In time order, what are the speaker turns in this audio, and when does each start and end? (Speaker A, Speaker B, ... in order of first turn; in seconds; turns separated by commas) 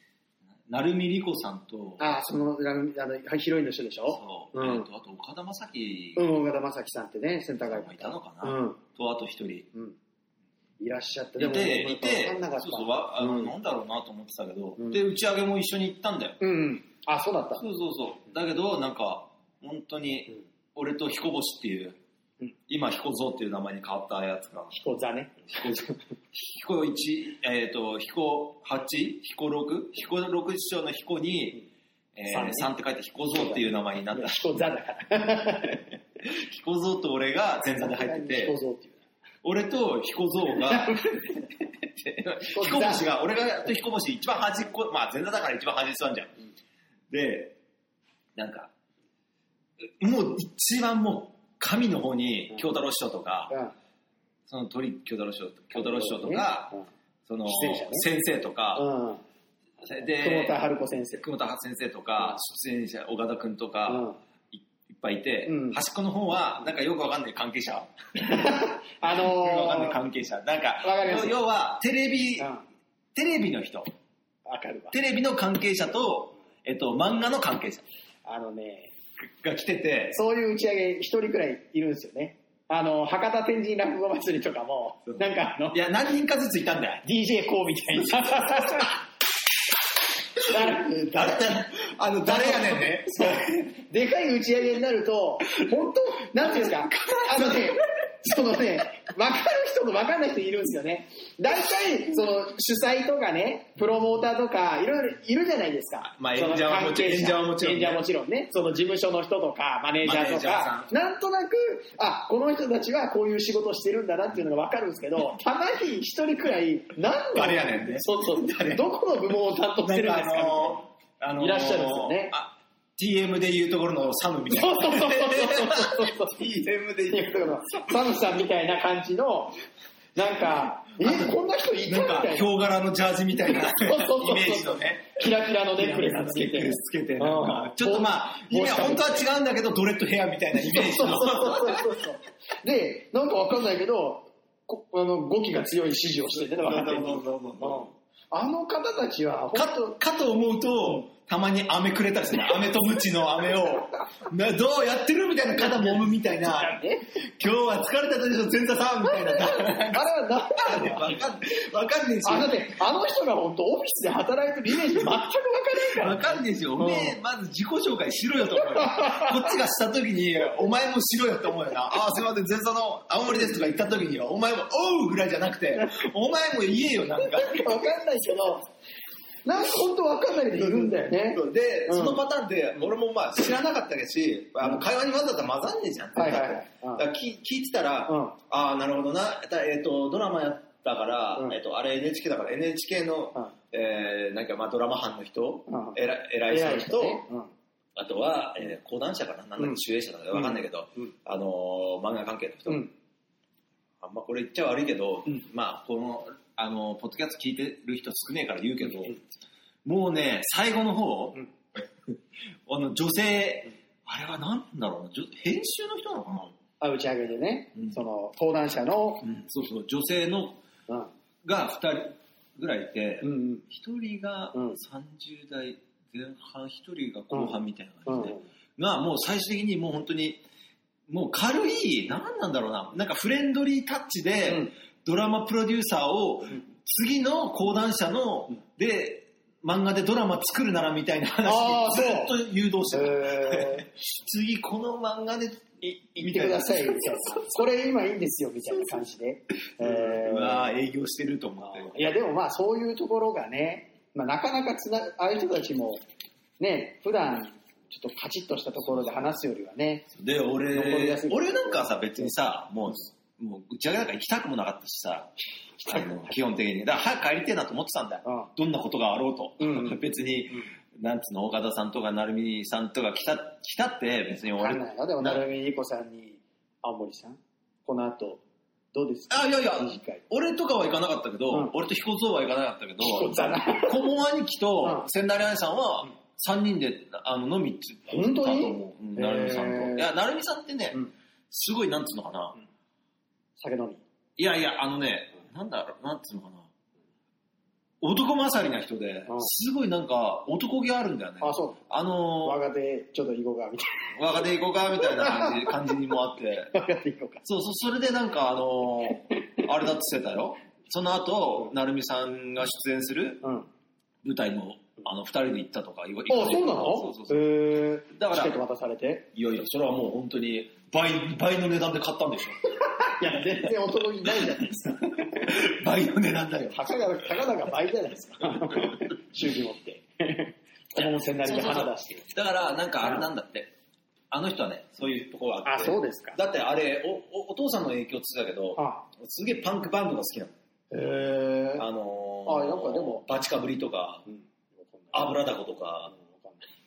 Speaker A: 0.7-2.1, Speaker B: 2.0-4.9, Speaker A: 4.1-6.3, Speaker B: 6.2-8.8, Speaker A: 7.7-9.7, Speaker B: 10.8-13.5, Speaker A: 11.4-16.4, Speaker B: 16.4-17.6, Speaker A: 17.6-22.0, Speaker A: 22.7-24.7, Speaker B: 24.7-26.0, Speaker A: 25.5-31.6, Speaker A: 32.2-34.5, Speaker B: 32.3-32.7, Speaker B: 33.3-36.0, Speaker A: 36.2-38.5, Speaker B: 37.8-39.0, Speaker A: 39.4-46.3, Speaker B: 40.6-41.5, Speaker B: 42.5-43.1, Speaker A: 47.1-47.6, Speaker A: 48.4-48.7, Speaker A: 50.0-53.5, Speaker A: 54.5-56.7, Speaker B: 55.7-56.9, Speaker A: 57.3-58.9, Speaker B: 57.5-58.1, Speaker B: 58.8-59.2, Speaker A: 59.8-60.5, Speaker B: 60.0-61.2, Speaker A: 61.2-67.9, Speaker B: 63.9-64.2, Speaker B: 65.5-65.8, Speaker B: 68.2-70.0, Speaker A: 69.1-72.5, Speaker B: 70.8-71.4, Speaker B: 72.4-72.6, Speaker A: 73.2-73.9, Speaker B: 74.5-75.0, Speaker A: 74.9-77.8, Speaker B: 78.2-78.9, Speaker A: 79.2-80.2, Speaker B: 80.1-85.8, Speaker A: 85.1-87.0, Speaker B: 87.0-89.0, Speaker A: 88.0-88.9, Speaker B: 90.4-91.5, Speaker A: 90.5-93.7, Speaker B: 92.2-120.8, Speaker A: 96.4-97.8, Speaker A: 106.0-108.0, Speaker A: 110.0-110.9, Speaker A: 117.3-118.9, Speaker A: 119.8-128.2, Speaker B: 121.4-122.3, Speaker B: 124.5-126.4, Speaker B: 127.1-129.6, Speaker B: 130.2-132.5, Speaker A: 131.0-142.0, Speaker B: 133.5-139.2, Speaker B: 140.5-150.0, Speaker A: 146.3-147.9, Speaker A: 149.5-162.7, Speaker B: 155.6-157.1, Speaker B: 159.1-161.2, Speaker B: 162.2-167.2, Speaker A: 166.0-177.8, Speaker B: 168.6-169.6, Speaker B: 177.2-178.7, Speaker B: 179.4-182.2, Speaker A: 180.6-197.2, Speaker B: 186.2-187.1, Speaker B: 188.1-188.4, Speaker B: 195.7-197.5, Speaker A: 198.0-202.9, Speaker B: 200.3-201.1, Speaker A: 204.0-209.2, Speaker A: 209.8-216.6, Speaker B: 216.8-219.3, Speaker A: 219.2-220.6, Speaker A: 221.4-230.4, Speaker B: 223.2-223.7, Speaker B: 224.5-224.8, Speaker B: 227.3-228.4, Speaker A: 231.1-247.6, Speaker B: 241.4-242.3, Speaker B: 242.9-243.9, Speaker B: 245.8-250.7, Speaker A: 249.8-252.1, Speaker B: 251.6-256.0, Speaker B: 256.6-260.1, Speaker A: 260.1-265.3, Speaker B: 260.7-262.3, Speaker B: 265.8-266.4, Speaker A: 265.8-275.4, Speaker B: 268.2-268.5, Speaker B: 269.6-270.0, Speaker B: 274.6-278.4, Speaker B: 278.9-280.2, Speaker A: 279.3-292.6, Speaker B: 283.0-284.1, Speaker B: 288.1-290.1, Speaker B: 293.6-294.0, Speaker A: 294.4-296.7, Speaker A: 298.0-302.6, Speaker B: 301.4-301.8, Speaker B: 302.4-304.1, Speaker A: 304.1-306.8, Speaker B: 305.0-305.8, Speaker B: 306.7-307.4, Speaker A: 307.4-313.4, Speaker B: 313.4-313.7, Speaker A: 314.2-317.5, Speaker B: 316.3-319.3, Speaker A: 318.1-318.6, Speaker A: 319.3-322.6, Speaker B: 323.0-325.6, Speaker A: 324.2-327.3, Speaker B: 326.7-332.3, Speaker A: 328.5-329.0, Speaker A: 331.4-333.7, Speaker A: 334.3-340.5, Speaker B: 335.6-336.4, Speaker B: 338.8-339.1, Speaker B: 340.9-341.9, Speaker A: 341.8-344.2, Speaker B: 342.5-343.2, Speaker B: 344.3-345.4, Speaker A: 345.1-346.1, Speaker B: 346.1-346.6